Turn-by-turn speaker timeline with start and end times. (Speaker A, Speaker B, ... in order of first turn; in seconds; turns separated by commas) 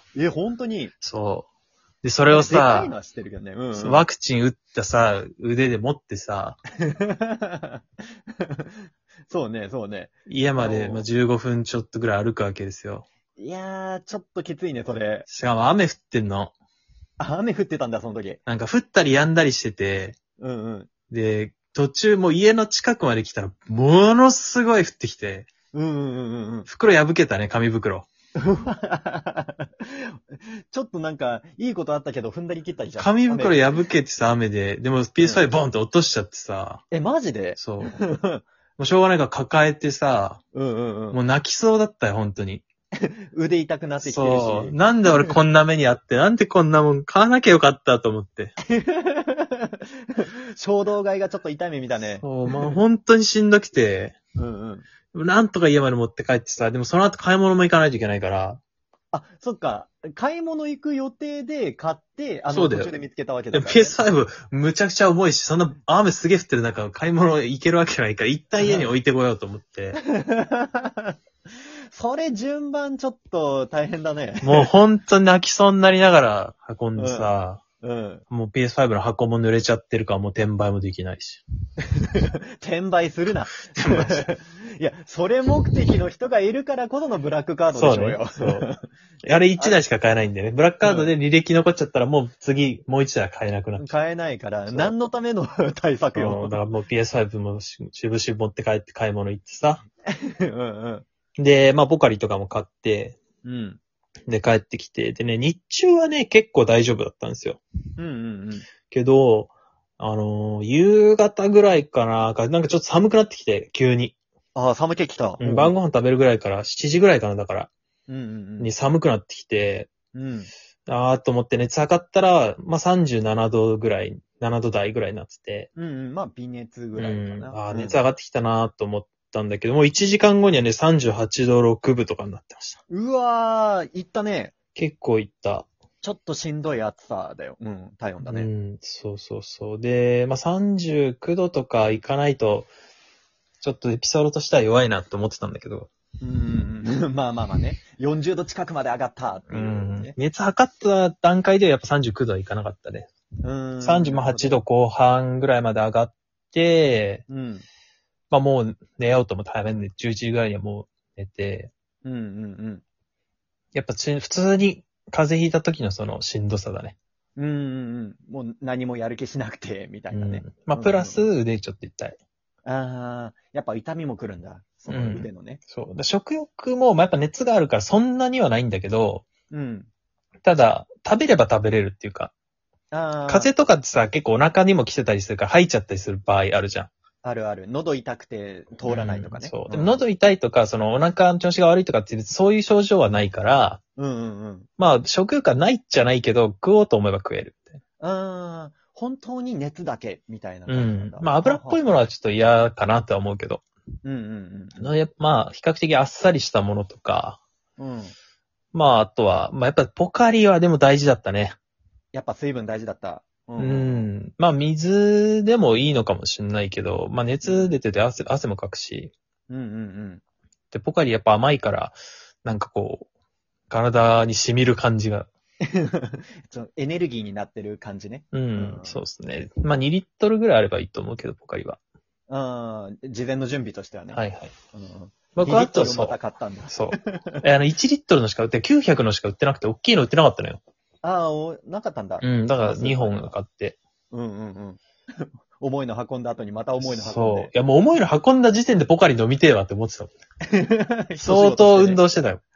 Speaker A: 0.1-0.9, Speaker B: 1.0-1.5, Speaker B: 2.0-2.9, Speaker A: 2.3-4.0, Speaker B: 3.7-6.6, Speaker A: 6.8-7.8, Speaker A: 8.4-8.7, Speaker A: 9.3-11.0, Speaker B: 10.2-13.1, Speaker A: 13.4-15.3, Speaker B: 15.3-16.5, Speaker A: 17.2-18.4, Speaker B: 18.5-20.2, Speaker A: 20.4-20.9, Speaker B: 21.1-25.5, Speaker A: 25.7-26.7, Speaker B: 26.7-28.1, Speaker A: 28.4-33.6, Speaker B: 33.0-36.8, Speaker A: 36.9-38.4, Speaker B: 37.5-38.0, Speaker B: 38.8-40.4, Speaker A: 40.5-41.2, Speaker B: 41.1-42.6, Speaker A: 43.0-45.3, Speaker B: 44.0-48.5, Speaker A: 48.7-52.8, Speaker B: 52.1-54.1, Speaker A: 54.4-54.9, Speaker B: 55.1-58.6, Speaker A: 59.1-64.0, Speaker B: 62.5-62.9, Speaker B: 63.5-70.0, Speaker A: 68.6-68.9, Speaker A: 70.0-71.1, Speaker A: 71.9-74.7, Speaker B: 74.4-77.6, Speaker A: 77.0-78.2, Speaker B: 78.3-81.4, Speaker A: 81.9-88.8, Speaker B: 83.8-84.3, Speaker B: 87.7-88.7, Speaker B: 89.2-93.8, Speaker A: 90.8-91.1, Speaker A: 93.8-96.5, Speaker B: 94.7-94.9, Speaker B: 96.1-99.8, Speaker A: 100.1-101.0, Speaker B: 101.4-103.2, Speaker A: 103.4-103.8, Speaker B: 104.3-107.6, Speaker A: 108.0-108.7, Speaker B: 108.9-114.2, Speaker A: 114.5-115.7, Speaker B: 115.4-117.7, Speaker A: 118.1-118.7, Speaker B: 118.6-119.9, Speaker A: 120.1-120.5, Speaker B: 120.9-125.7, Speaker A: 125.7-128.0, Speaker B: 127.0-132.8, Speaker A: 132.9-134.5, Speaker B: 134.7-135.7, Speaker A: 136.0-138.5, Speaker B: 138.2-142.7, Speaker B: 143.6-145.9, Speaker A: 146.2-150.1, Speaker B: 149.5-153.1, Speaker A: 153.4-154.6, Speaker B: 153.8-157.2, Speaker A: 157.3-157.6, Speaker B: 158.3-161.7, Speaker A: 162.0-162.8, Speaker B: 163.7-166.9, Speaker A: 167.3-171.3, Speaker B: 170.1-172.2, Speaker A: 172.6-175.6, Speaker B: 174.9-179.3, Speaker A: 179.5-179.9, Speaker B: 180.4-182.3, Speaker A: 182.9-183.5, Speaker B: 183.3-186.9, Speaker A: 187.2-190.0, Speaker B: 188.9-193.8, Speaker A: 194.0-194.7, Speaker B: 194.8-197.7, Speaker A: 198.0-201.8, Speaker B: 200.7-203.6, Speaker A: 204.0-204.9, Speaker B: 204.8-207.4, Speaker A: 207.8-208.1, Speaker B: 208.7-211.6, Speaker A: 212.1-214.1, Speaker B: 213.6-219.1, Speaker A: 217.4-217.7, Speaker A: 219.5-220.2, Speaker B: 220.7-223.1, Speaker B: 223.7-225.3, Speaker A: 225.6-229.0, Speaker B: 228.3-231.8, Speaker A: 232.3-234.2, Speaker B: 234.1-234.5, Speaker A: 234.7-237.4, Speaker B: 235.3-236.2, Speaker B: 236.7-240.6, Speaker A: 241.0-243.3, Speaker B: 242.2-243.8, Speaker A: 244.1-247.5, Speaker B: 246.8-250.1, Speaker A: 250.5-252.0, Speaker B: 251.2-252.4